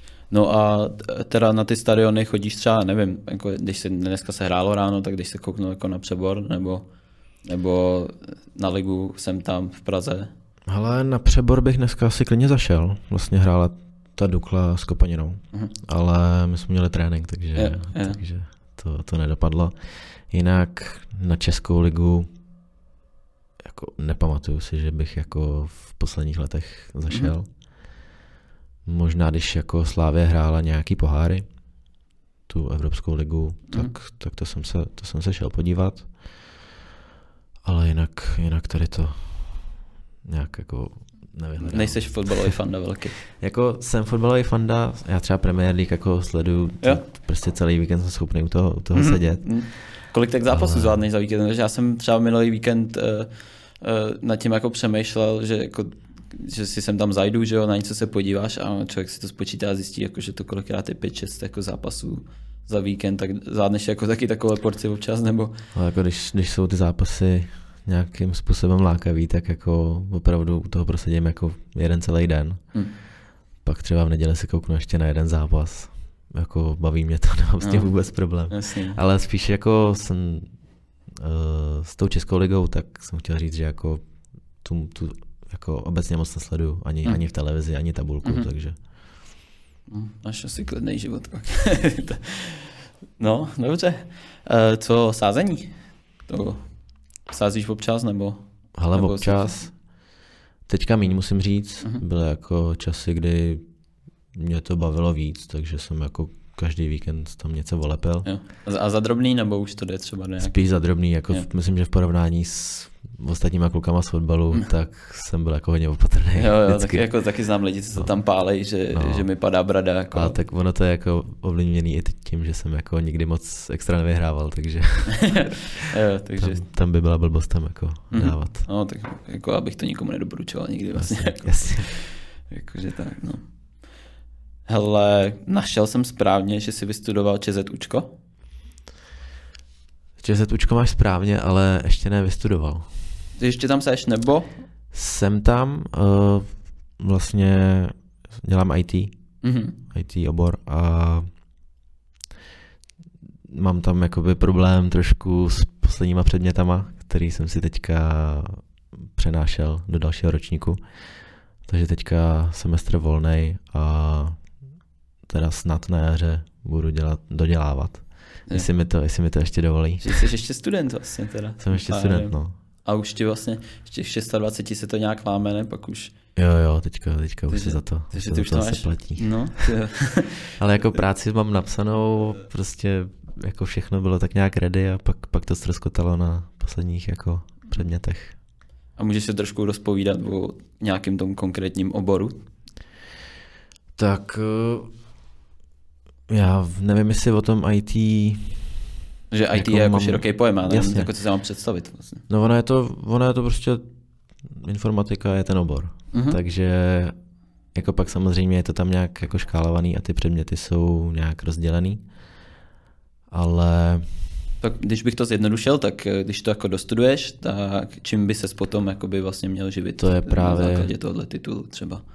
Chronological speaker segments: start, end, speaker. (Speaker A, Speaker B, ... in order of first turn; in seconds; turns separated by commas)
Speaker A: 0.3-6.9, Speaker A: 7.4-10.3, Speaker B: 10.7-22.3, Speaker A: 17.5-18.2, Speaker B: 23.6-27.6, Speaker A: 27.1-27.3, Speaker B: 28.8-31.8, Speaker B: 32.5-36.6, Speaker B: 37.6-42.6, Speaker A: 41.6-43.2, Speaker B: 43.3-51.0, Speaker A: 48.9-65.6, Speaker B: 65.7-73.0, Speaker B: 73.6-88.8, Speaker A: 77.6-79.0, Speaker A: 88.2-88.5, Speaker A: 89.9-99.7, Speaker B: 98.7-100.0, Speaker B: 100.7-103.6, Speaker B: 104.3-108.3, Speaker A: 108.2-111.5, Speaker B: 110.4-117.2, Speaker A: 116.3-120.4, Speaker B: 117.9-119.3, Speaker B: 120.1-125.6, Speaker A: 125.2-126.6, Speaker B: 126.4-128.7, Speaker A: 128.1-133.5, Speaker B: 130.9-132.0, Speaker A: 134.7-138.2, Speaker B: 140.2-143.1, Speaker A: 143.4-144.6, Speaker B: 144.9-151.3, Speaker A: 149.4-149.8, Speaker B: 153.5-164.6, Speaker B: 165.2-170.2, Speaker A: 170.0-176.1, Speaker B: 171.6-172.5, Speaker B: 176.3-179.7, Speaker A: 177.5-180.5, Speaker B: 180.6-188.4, Speaker A: 188.9-192.4, Speaker B: 193.9-194.9, Speaker B: 196.3-198.9, Speaker A: 199.3-202.2, Speaker B: 199.5-201.1, Speaker B: 202.3-203.9, Speaker B: 204.4-207.1, Speaker A: 206.1-206.4, Speaker B: 207.7-212.1, Speaker B: 213.3-214.4, Speaker A: 214.6-222.0, Speaker B: 220.0-220.9